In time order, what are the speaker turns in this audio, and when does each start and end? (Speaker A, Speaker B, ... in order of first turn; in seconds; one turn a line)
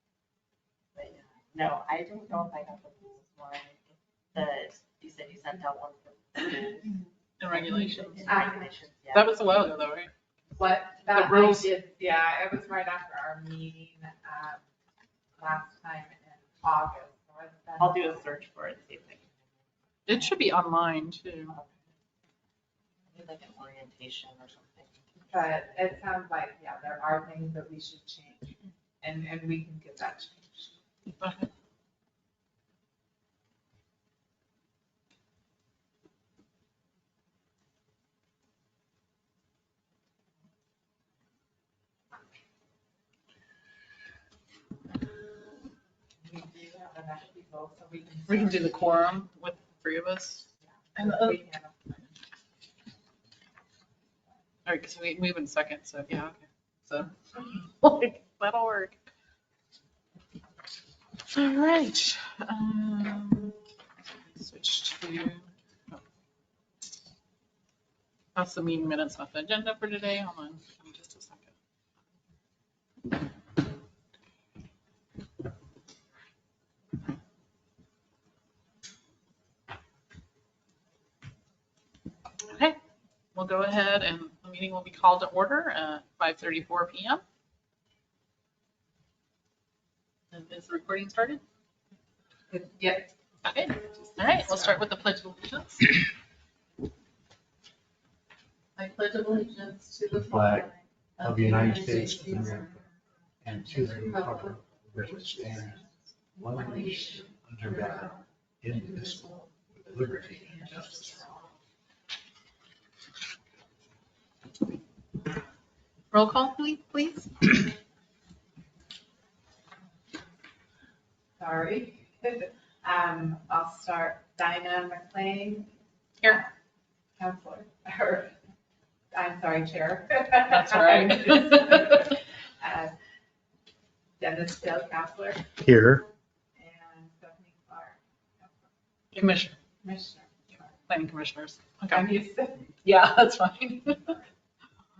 Speaker A: 1.0-9.7
Speaker B: 7.4-8.4
Speaker C: 8.3-8.7
Speaker B: 9.1-10.1
Speaker C: 10.6-14.6
Speaker B: 11.1-11.7
Speaker C: 15.4-18.3
Speaker A: 17.8-19.4
Speaker B: 20.1-21.6
Speaker A: 23.1-26.0
Speaker C: 25.3-30.7
Speaker B: 31.2-31.5
Speaker C: 46.2-48.9
Speaker B: 48.3-51.4
Speaker C: 51.0-52.0
Speaker B: 54.6-59.0
Speaker B: 61.3-63.6
Speaker B: 64.3-66.0
Speaker B: 68.3-71.5
Speaker B: 82.5-82.8
Speaker B: 83.3-87.2
Speaker B: 90.3-91.4
Speaker C: 92.5-93.0
Speaker B: 93.4-96.1
Speaker B: 98.8-100.7
Speaker D: 100.1-100.7
Speaker D: 101.2-102.7
Speaker A: 101.3-102.6
Speaker B: 101.5-102.5
Speaker D: 103.4-105.8
Speaker D: 106.4-111.2
Speaker A: 106.6-107.0
Speaker B: 116.1-117.6
Speaker C: 121.4-125.7
Speaker C: 127.2-128.3
Speaker C: 129.1-132.9
Speaker B: 130.4-131.8
Speaker C: 134.2-135.4
Speaker D: 135.6-136.1
Speaker C: 136.6-138.0
Speaker B: 139.1-139.6
Speaker C: 139.8-140.3
Speaker B: 140.9-142.1
Speaker C: 141.9-142.7
Speaker B: 142.8-144.2